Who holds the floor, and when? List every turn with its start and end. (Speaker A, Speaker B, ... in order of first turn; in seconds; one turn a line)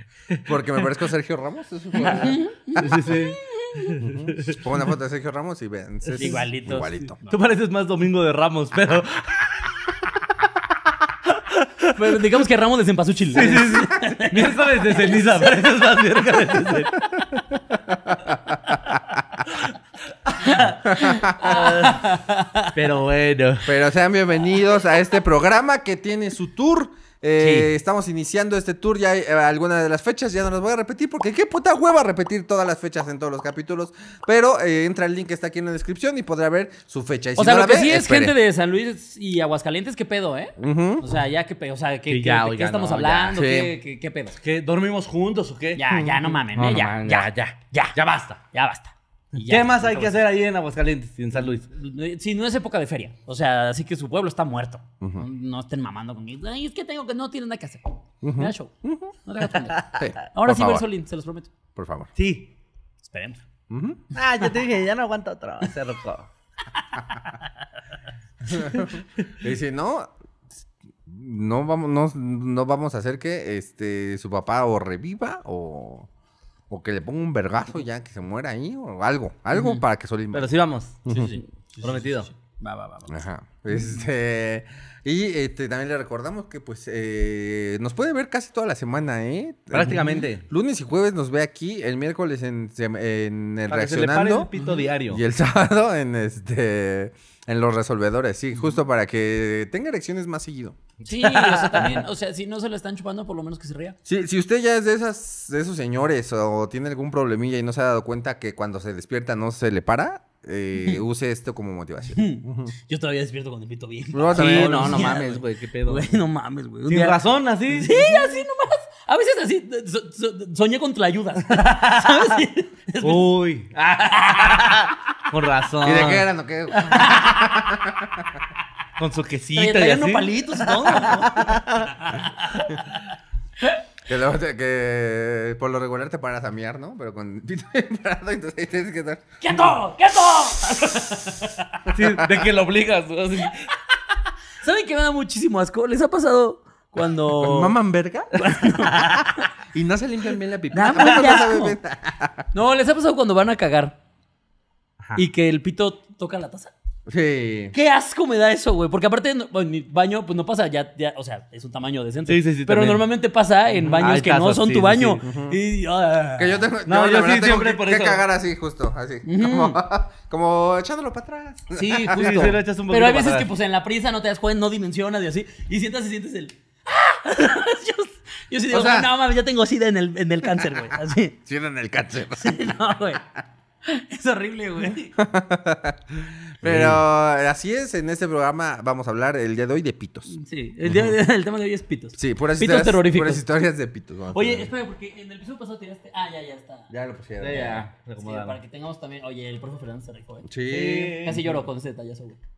Speaker A: 0.5-3.0
Speaker B: 2.0-4.0
Speaker C: 2.8-4.6
Speaker A: 4.0-7.2
Speaker B: 6.2-7.3
Speaker C: 7.3-9.6
Speaker C: 11.5-11.9
Speaker B: 11.9-15.5
Speaker C: 13.3-17.0
Speaker A: 18.1-18.6
Speaker C: 20.4-20.8
Speaker B: 20.6-22.8
Speaker A: 20.9-21.4
Speaker C: 21.4-22.1
Speaker C: 22.7-23.8
Speaker A: 23.6-38.4
Speaker B: 27.4-27.7
Speaker B: 37.4-44.4
Speaker A: 40.6-41.0
Speaker C: 42.1-43.4
Speaker A: 43.3-43.7
Speaker C: 44.4-48.4
Speaker B: 45.8-50.2
Speaker C: 49.4-51.7
Speaker B: 51.7-58.7
Speaker A: 58.2-59.1
Speaker B: 59.2-61.5
Speaker A: 60.0-60.9
Speaker A: 61.8-62.1
Speaker C: 62.2-62.5
Speaker B: 63.0-63.4
Speaker A: 63.7-64.0
Speaker C: 64.1-66.3
Speaker B: 67.0-67.5
Speaker A: 68.5-70.1
Speaker A: 71.1-76.1
Speaker A: 76.7-80.5
Speaker B: 79.5-79.8
Speaker C: 80.3-81.2
Speaker A: 81.1-81.3
Speaker B: 81.1-83.1
Speaker C: 81.8-82.3
Speaker A: 83.1-94.5
Speaker C: 89.7-90.5
Speaker C: 93.7-95.2
Speaker A: 95.1-100.8
Speaker B: 101.0-104.0
Speaker C: 101.1-102.0
Speaker A: 104.0-112.7
Speaker B: 112.2-117.2
Speaker A: 114.1-115.3
Speaker C: 114.3-116.1
Speaker C: 116.9-118.4
Speaker B: 117.7-123.3
Speaker C: 121.5-122.3
Speaker C: 123.0-126.3
Speaker B: 124.3-124.8
Speaker A: 125.8-128.4
Speaker B: 126.9-127.5
Speaker C: 129.0-131.9
Speaker B: 129.6-132.8
Speaker A: 134.1-139.3
Speaker B: 139.4-141.9
Speaker C: 141.9-143.7
Speaker B: 144.6-147.8
Speaker A: 147.3-148.9
Speaker B: 148.3-149.3
Speaker A: 149.7-152.5
Speaker B: 150.7-151.8
Speaker C: 150.9-151.4
Speaker B: 152.5-154.0
Speaker B: 155.2-156.7
Speaker A: 157.1-157.8
Speaker B: 157.7-166.6
Speaker C: 162.3-163.1
Speaker C: 163.9-165.2
Speaker A: 165.2-165.6
Speaker A: 166.4-172.4
Speaker C: 166.9-168.2
Speaker B: 169.2-169.8
Speaker B: 171.7-181.4
Speaker C: 172.1-173.5
Speaker A: 178.7-179.2
Speaker A: 181.5-182.7
Speaker B: 182.4-183.2
Speaker B: 183.8-185.2
Speaker A: 185.2-190.3
Speaker C: 186.6-187.0
Speaker B: 190.3-193.4
Speaker A: 192.2-194.7
Speaker B: 194.3-196.9
Speaker A: 196.9-197.8
Speaker C: 197.4-198.6
Speaker B: 197.5-202.4
Speaker A: 200.4-201.2
Speaker C: 200.7-201.6